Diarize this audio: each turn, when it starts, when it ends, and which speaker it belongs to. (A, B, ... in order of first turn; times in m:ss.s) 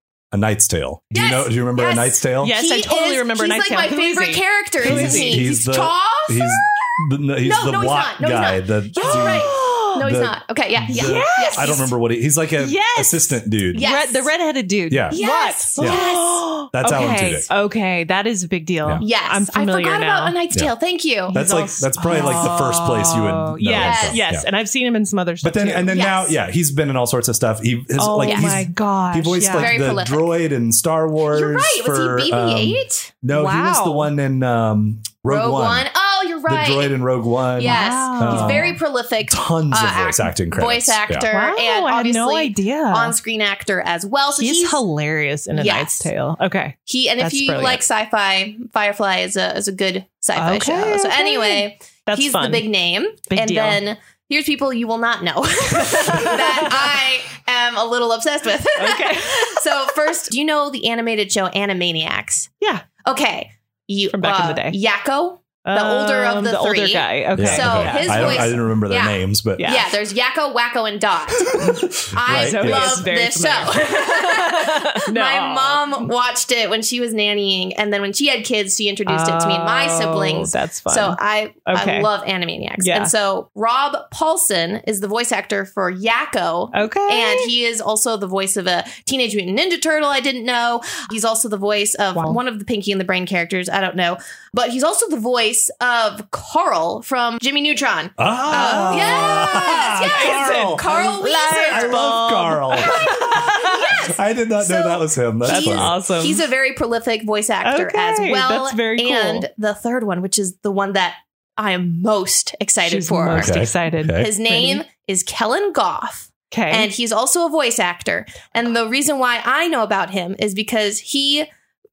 0:00.3-0:02.6 A
0:01.1-0:11.9 B
0:02.4-0:05.4 C
0:04.8-0:13.9 A
0:09.0-0:10.0 C
0:10.9-0:11.8 C
0:12.6-0:20.4 C
0:13.7-0:14.3 B
0:14.9-0:15.2 A
0:15.1-0:16.4 B
0:15.8-0:16.1 A
0:16.7-0:17.5 A
0:19.0-0:21.4 B
0:21.3-0:26.0 C
0:21.3-0:24.5 A
0:22.0-0:22.6 B
0:23.7-0:24.2 B
0:25.4-0:35.9 A
0:25.9-0:26.4 B
0:28.0-0:29.8 C
0:28.2-0:28.5 B
0:29.5-0:30.3 B
0:31.3-0:33.1 B
0:33.3-0:34.1 C
0:35.3-0:37.0 B
0:36.5-0:41.3 A
0:37.6-0:38.8 C
0:37.6-0:44.8 B
0:41.3-0:43.2 C
0:44.4-0:47.8 C
0:45.6-0:46.1 B
0:46.9-1:02.5 B
0:50.4-0:52.7 C
0:53.3-0:53.8 C
0:55.8-0:57.0 C
0:58.8-0:59.6 C
1:03.0-1:42.1 B
1:04.1-1:04.8 C
1:05.6-1:08.6 C
1:07.4-1:09.7 A
1:09.6-1:09.9 C
1:11.6-1:13.0 A
1:12.3-1:16.0 C
1:19.1-1:22.1 C
1:22.8-1:23.1 C
1:26.7-1:27.5 C
1:38.2-1:40.9 A
1:38.5-1:44.0 C
1:41.7-1:46.0 A
1:42.8-2:01.5 B
1:45.4-1:46.4 C
1:47.6-1:49.5 C
1:52.9-1:54.8 C
1:53.3-1:54.3 A
1:56.5-1:56.9 C